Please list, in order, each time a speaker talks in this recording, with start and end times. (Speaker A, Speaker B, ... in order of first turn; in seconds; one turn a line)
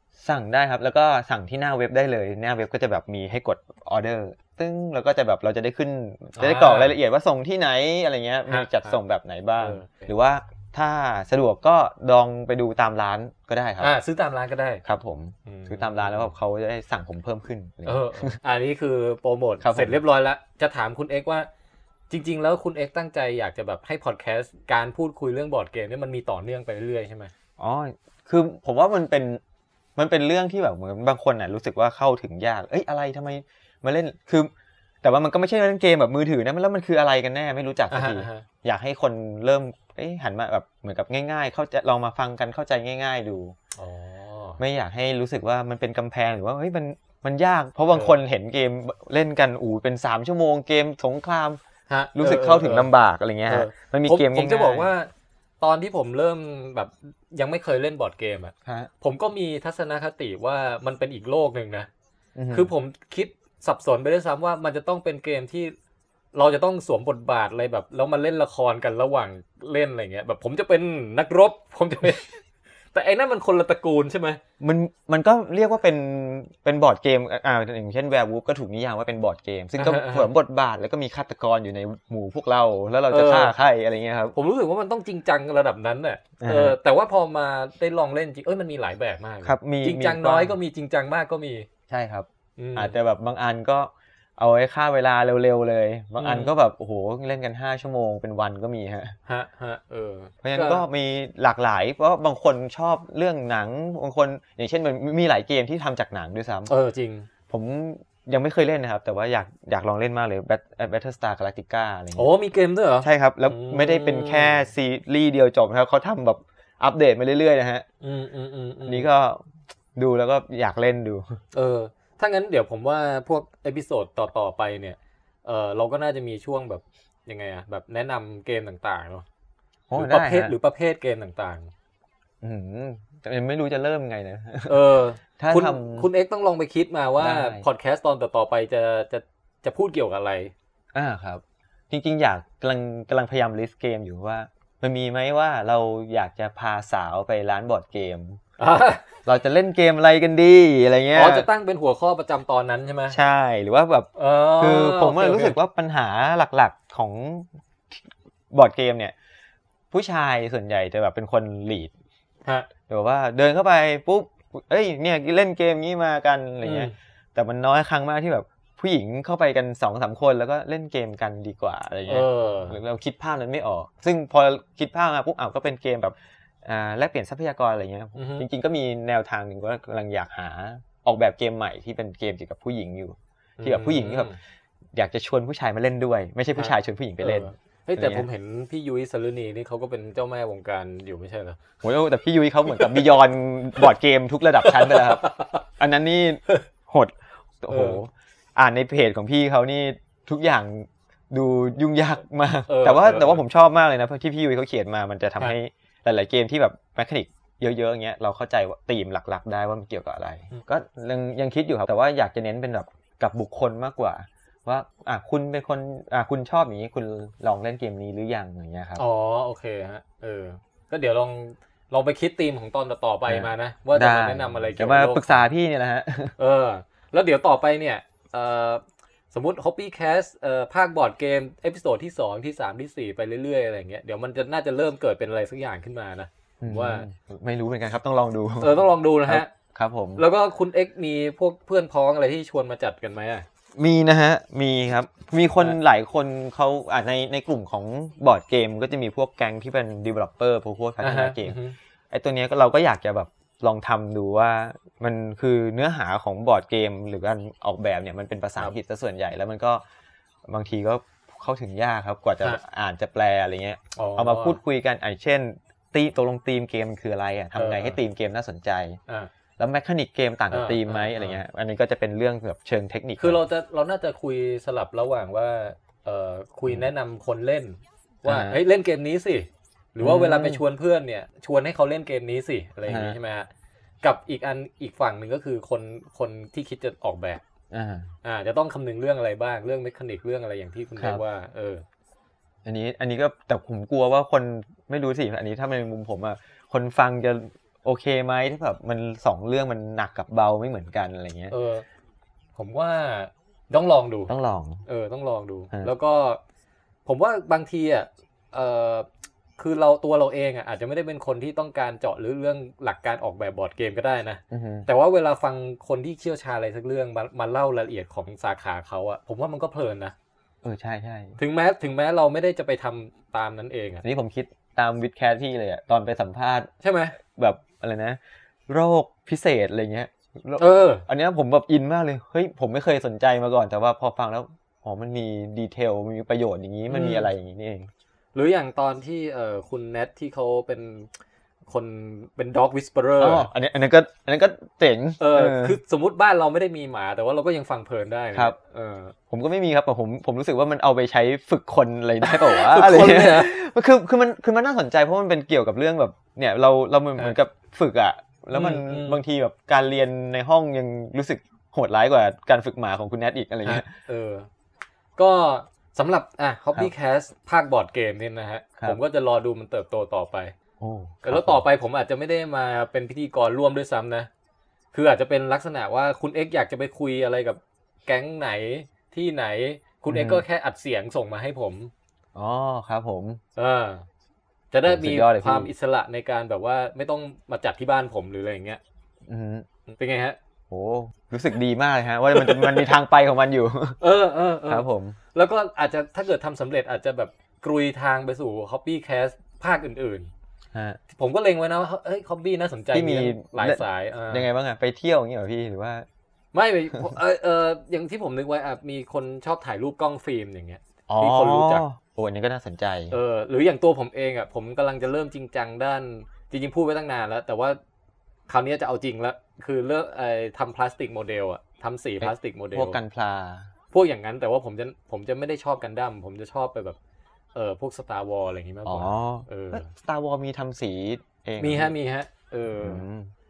Speaker A: 0.2-13.9
Speaker B: 6.3-7.0
Speaker B: 8.5-9.0
Speaker B: 9.6-10.0
Speaker B: 13.8-14.8
Speaker A: 14.8-18.4
Speaker B: 15.4-16.3
Speaker B: 17.8-21.5
Speaker A: 19.6-20.0
Speaker B: 22.1-27.3
Speaker A: 27.6-29.4
Speaker A: 30.0-34.5
Speaker A: 35.0-43.5
Speaker B: 37.9-38.5
Speaker B: 43.8-44.6
Speaker A: 44.6-51.6
Speaker B: 47.9-48.2
Speaker B: 51.9-52.9
Speaker A: 52.1-54.9
Speaker B: 53.5-55.1
Speaker B: 55.6-61.9
Speaker A: 58.6-58.9
Speaker A: 62.3-62.7
Speaker B: 62.5-65.7
Speaker B: 66.3-74.4
Speaker A: 74.6-84.3
Speaker B: 79.8-80.3
Speaker B: 83.1-83.5
Speaker B: 84.3-91.7
Speaker A: 86.4-86.8
Speaker A: 89.4-90.5
Speaker A: 91.9-99.2
Speaker B: 92.6-92.9
Speaker B: 96.2-96.5
Speaker B: 99.3-100.8
Speaker A: 100.4-106.7
Speaker B: 106.7-107.3
Speaker A: 107.5-112.3
Speaker B: 112.2-114.7
Speaker A: 113.0-117.8
Speaker B: 118.0-119.1
Speaker A: 118.8-121.4
Speaker B: 121.5-129.2
Speaker A: 129.9-130.5
Speaker B: 129.9-131.7
Speaker A: 132.4-134.8
Speaker B: 134.7-140.5
Speaker A: 135.4-136.1
Speaker A: 137.2-137.6
Speaker A: 140.9-148.4
Speaker B: 148.6-149.0
Speaker A: 149.2-151.5
Speaker B: 151.1-153.2
Speaker A: 153.1-158.0
Speaker B: 154.2-155.6
Speaker A: 158.5-159.1
Speaker A: 159.9-161.9
Speaker A: 162.9-184.3
Speaker B: 166.6-166.9
Speaker B: 172.1-172.8
Speaker B: 178.2-178.4
Speaker B: 183.6-184.4
Speaker A: 184.9-188.2
Speaker B: 186.6-191.6
Speaker A: 191.8-219.0
Speaker B: 192.7-193.0
Speaker B: 194.6-195.6
Speaker B: 197.7-198.0
Speaker B: 202.7-203.4
Speaker B: 218.9-225.4
Speaker A: 223.3-226.3
Speaker B: 226.4-237.1
Speaker A: 236.6-240.2
Speaker B: 238.6-239.5
Speaker B: 240.2-243.4
Speaker A: 243.8-251.6
Speaker B: 251.0-251.8
Speaker A: 252.1-259.8
Speaker A: 260.5-269.0
Speaker B: 263.9-264.6
Speaker B: 267.6-268.0
Speaker A: 269.6-273.4
Speaker B: 270.5-271.4
Speaker B: 273.2-283.5
Speaker A: 278.2-278.6
Speaker A: 280.0-280.6
Speaker A: 282.9-283.2
Speaker B: 284.0-287.4
Speaker A: 287.7-288.1
Speaker B: 288.2-291.8
Speaker A: 291.0-291.2
Speaker A: 292.6-301.5
Speaker B: 301.5-301.8
Speaker B: 302.6-304.3
Speaker A: 304.3-304.8
Speaker B: 304.9-306.4
Speaker B: 307.1-320.1
Speaker A: 314.5-314.9
Speaker A: 320.6-321.4
Speaker B: 321.4-324.0
Speaker A: 324.0-326.7
Speaker B: 326.8-327.1
Speaker A: 327.3-337.9
Speaker B: 330.6-331.0
Speaker B: 336.9-337.3
Speaker B: 338.3-341.1
Speaker B: 341.7-343.5
Speaker A: 343.2-345.8
Speaker B: 345.2-349.1
Speaker A: 349.3-363.9
Speaker B: 352.2-353.5
Speaker B: 358.5-359.2
Speaker B: 363.6-364.5
Speaker B: 365.2-370.5
Speaker A: 370.8-371.6
Speaker B: 371.2-374.3
Speaker B: 374.9-381.9
Speaker A: 380.1-380.4
Speaker A: 382.3-383.4
Speaker B: 383.6-384.1
Speaker B: 384.7-388.8
Speaker A: 384.8-385.7
Speaker A: 389.3-389.6
Speaker B: 389.9-390.4
Speaker A: 390.7-394.0
Speaker B: 392.4-392.8
Speaker B: 394.0-400.3
Speaker A: 394.7-395.2
Speaker A: 400.7-401.0
Speaker B: 401.1-404.5
Speaker A: 402.9-406.1
Speaker B: 406.5-411.8
Speaker A: 411.1-413.1
Speaker B: 413.1-417.8
Speaker B: 418.5-423.0
Speaker A: 422.2-423.7
Speaker B: 423.9-427.0
Speaker B: 427.5-429.9
Speaker A: 428.8-431.9
Speaker B: 431.6-433.0
Speaker A: 432.8-433.3